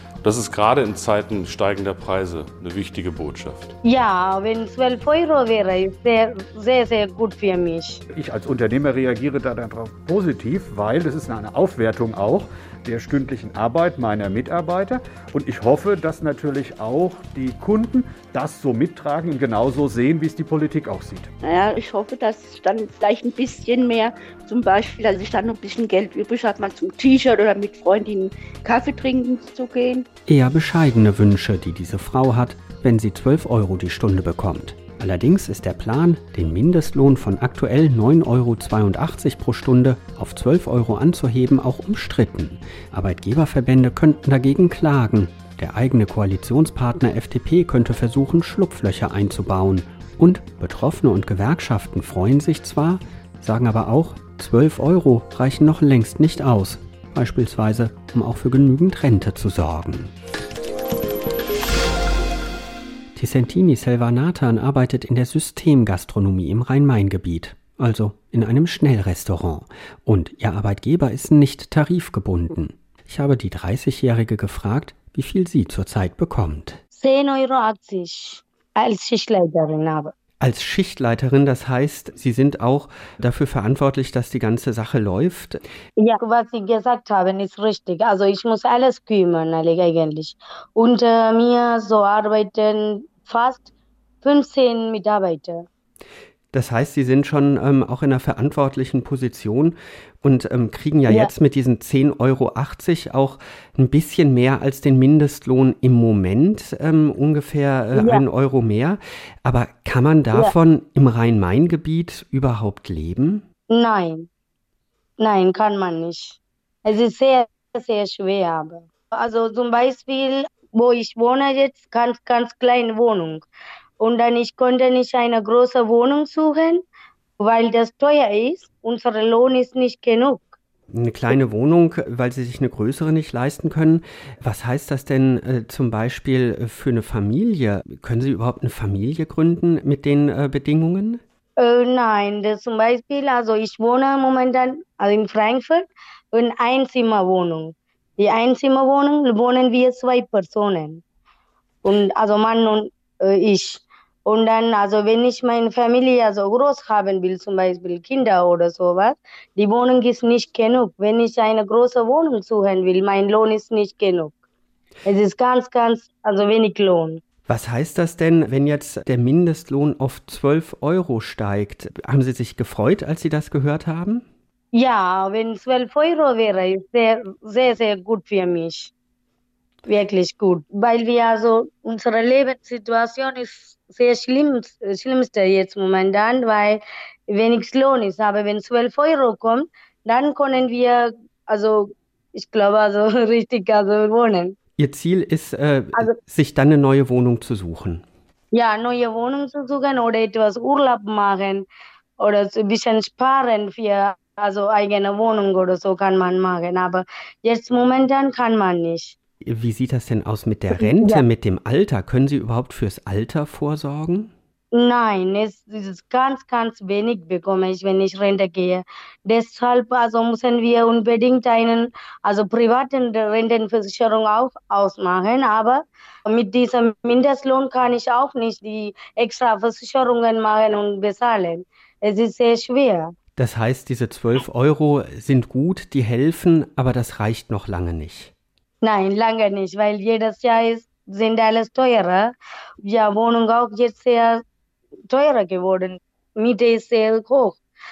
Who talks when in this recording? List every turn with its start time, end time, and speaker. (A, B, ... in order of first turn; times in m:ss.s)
0:00.2-0:03.7 A
0:03.8-0:08.0 B
0:08.1-0:21.3 C
0:21.4-0:30.1 D
0:30.3-1:00.1 E
1:03.2-1:16.8 E
1:17.0-1:20.1 B
1:20.4-1:25.6 E
1:26.0-1:33.7 B
1:34.2-1:35.7 B
1:36.5-1:53.4 E
1:48.0-1:48.2 B
1:53.7-1:54.3 B
1:55.2-2:03.5 B
2:04.0-2:06.8 B
2:07.4-2:10.5 B
2:10.9-2:21.2 E
2:21.6-2:31.0 B
2:31.8-2:44.3 B
2:45.1-2:47.2 B
2:47.5-2:54.2 E
2:54.7-2:58.9 B
2:59.9-3:14.6 B
3:14.8-3:18.0 E
3:18.5-3:21.7 B
3:22.2-3:29.2 B
3:29.4-3:34.3 E
3:30.8-3:31.2 B
3:34.7-3:53.1 B
3:53.4-3:58.3 E
3:58.8-4:04.4 B
4:05.1-4:07.6 B